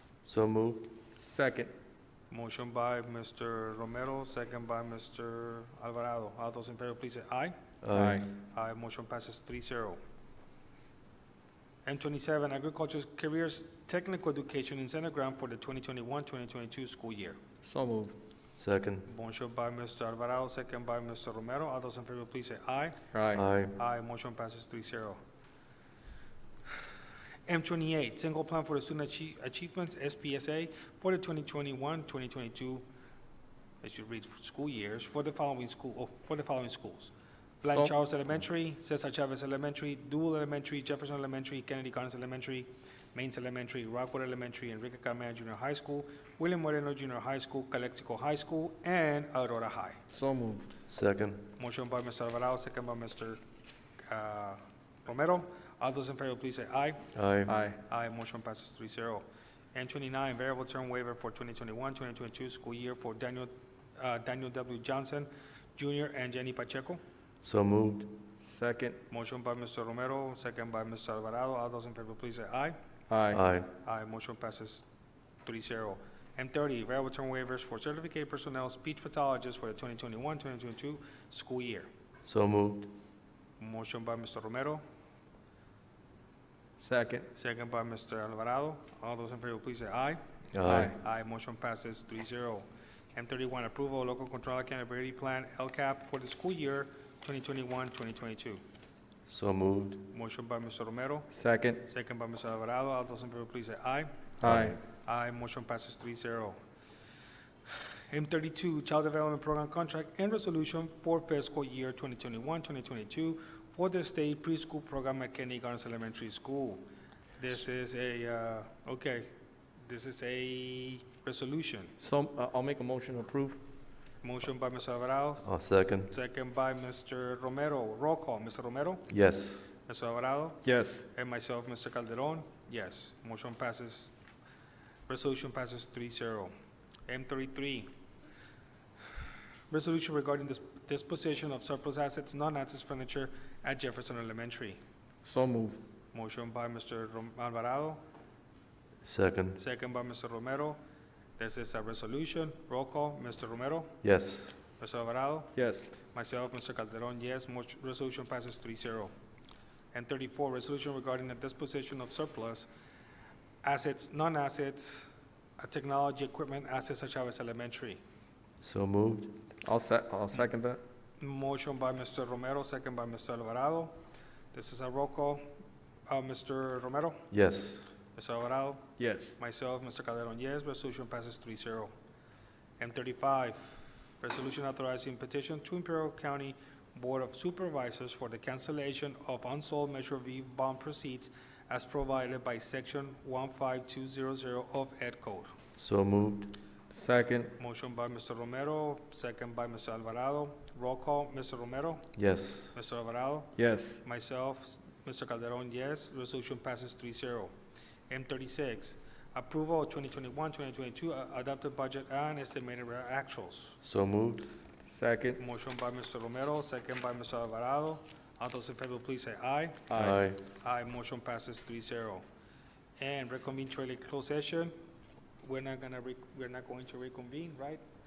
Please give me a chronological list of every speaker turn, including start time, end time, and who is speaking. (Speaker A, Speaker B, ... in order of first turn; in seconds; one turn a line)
Speaker A: 0.2-0.9
Speaker B: 1.2-1.7
Speaker C: 2.3-7.5
Speaker A: 7.8-8.3
Speaker B: 7.9-8.3
Speaker C: 8.4-10.0
Speaker C: 11.8-17.4
Speaker B: 17.6-18.1
Speaker A: 18.6-19.1
Speaker C: 19.1-25.2
Speaker B: 23.1-23.4
Speaker A: 23.3-23.8
Speaker C: 27.5-32.8
Speaker C: 33.8-50.0
Speaker B: 37.7-37.9
Speaker B: 50.1-50.7
Speaker A: 50.9-51.5
Speaker C: 51.6-53.4
Speaker C: 54.1-57.1
Speaker A: 57.1-57.5
Speaker B: 57.5-57.8
Speaker C: 57.8-67.0
Speaker A: 67.4-68.1
Speaker B: 68.4-69.0
Speaker C: 69.1-72.8
Speaker B: 73.1-73.4
Speaker A: 73.3-73.7
Speaker C: 73.8-74.8
Speaker C: 75.4-81.9
Speaker A: 82.2-82.9
Speaker C: 83.6-84.8
Speaker B: 86.8-87.3
Speaker C: 87.3-98.6
Speaker A: 90.5-90.9
Speaker B: 90.6-90.9
Speaker A: 99.3-100.1
Speaker C: 100.1-106.5
Speaker B: 101.3-101.8
Speaker B: 104.4-104.8
Speaker A: 104.4-104.8
Speaker C: 108.1-116.8
Speaker C: 117.4-119.3
Speaker C: 119.8-121.9
Speaker B: 122.0-123.6
Speaker C: 124.2-129.1
Speaker A: 125.4-126.1
Speaker A: 129.1-129.6
Speaker C: 129.8-134.1
Speaker B: 130.6-131.0
Speaker C: 135.1-136.5
Speaker C: 137.1-137.9
Speaker C: 139.7-144.8
Speaker B: 145.2-145.8
Speaker C: 146.1-148.0
Speaker A: 149.0-149.6
Speaker C: 149.6-150.8
Speaker C: 151.4-154.0
Speaker A: 154.0-154.5
Speaker C: 154.8-159.1
Speaker B: 155.6-155.9
Speaker C: 159.9-162.7
Speaker C: 163.6-168.0
Speaker A: 168.6-169.4
Speaker B: 169.6-170.8
Speaker C: 171.2-173.9
Speaker C: 174.5-175.4
Speaker C: 176.1-177.2
Speaker A: 177.3-177.8
Speaker C: 178.2-181.9
Speaker B: 179.0-179.4
Speaker C: 182.8-195.6
Speaker A: 195.8-196.6
Speaker B: 196.9-197.5
Speaker C: 197.6-202.1
Speaker A: 202.2-202.7
Speaker C: 202.7-207.5
Speaker B: 203.6-204.0
Speaker C: 208.1-213.8
Speaker A: 213.8-214.5
Speaker B: 214.9-215.4
Speaker C: 215.4-219.9
Speaker B: 219.9-220.2
Speaker A: 219.9-220.4
Speaker C: 220.6-222.2
Speaker C: 223.0-224.7
Speaker C: 225.4-227.8